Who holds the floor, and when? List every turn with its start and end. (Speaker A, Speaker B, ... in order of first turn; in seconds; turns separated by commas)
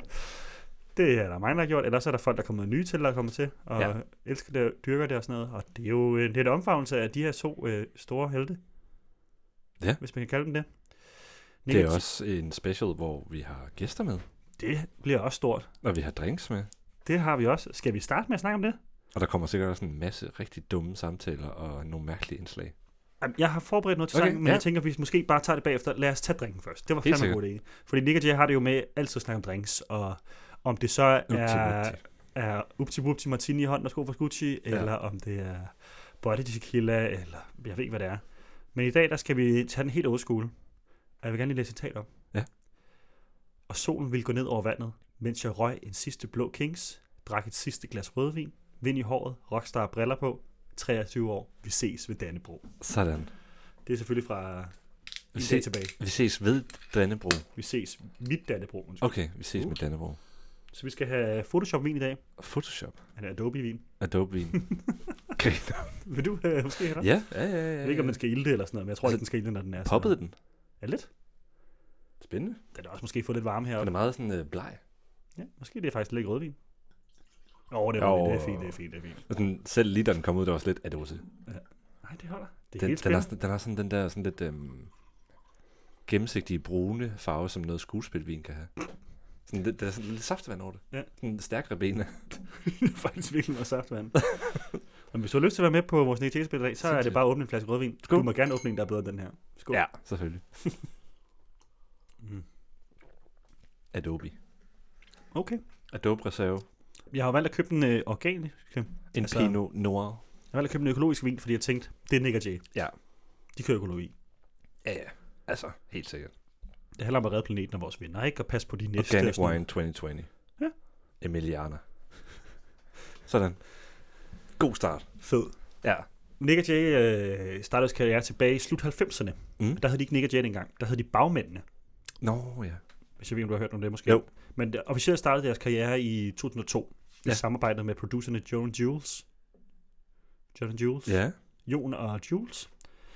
Speaker A: 0.9-8.6, Speaker A: 10.0-12.0, Speaker B: 11.7-14.2, Speaker A: 14.6-15.7, Speaker B: 15.8-16.7, Speaker A: 17.1-18.8, Speaker B: 19.1-22.7, Speaker A: 23.2-40.5, Speaker B: 24.1-24.6, Speaker B: 27.0-27.4, Speaker B: 31.3-32.0, Speaker A: 41.2-42.1, Speaker A: 43.7-52.6, Speaker B: 52.8-53.3, Speaker A: 53.8-54.8, Speaker A: 55.3-55.9, Speaker B: 55.3-57.5, Speaker A: 57.6-59.8, Speaker B: 59.0-60.2, Speaker A: 60.7-62.2, Speaker B: 62.4-63.0, Speaker A: 63.2-63.9, Speaker B: 64.0-64.8, Speaker A: 64.5-65.0, Speaker B: 65.3-66.0, Speaker A: 66.0-67.1, Speaker B: 67.0-68.2, Speaker A: 67.8-70.2, Speaker B: 69.8-70.3, Speaker A: 70.8-71.1, Speaker B: 72.2-72.6, Speaker A: 72.7-73.9, Speaker B: 73.8-74.8, Speaker A: 75.3-76.6, Speaker A: 77.7-79.2, Speaker B: 78.0-78.8, Speaker B: 79.3-81.2, Speaker A: 81.5-83.3, Speaker B: 82.8-84.9, Speaker B: 86.1-88.7, Speaker B: 89.5-92.4, Speaker A: 92.5-99.8, Speaker B: 96.9-97.2, Speaker B: 99.7-100.5, Speaker B: 103.9-104.3, Speaker A: 105.3-105.6, Speaker B: 105.9-106.7, Speaker A: 107.1-109.6, Speaker B: 109.1-110.2, Speaker A: 110.5-112.7, Speaker A: 113.5-114.1, Speaker B: 114.8-116.3, Speaker A: 117.0-119.6, Speaker B: 119.0-120.3, Speaker B: 121.2-121.8, Speaker B: 123.2-123.8, Speaker B: 124.6-125.1, Speaker A: 125.2-125.5, Speaker A: 126.4-131.6, Speaker B: 132.2-132.8, Speaker A: 133.2-139.2, Speaker A: 140.5-142.7, Speaker B: 141.1-141.3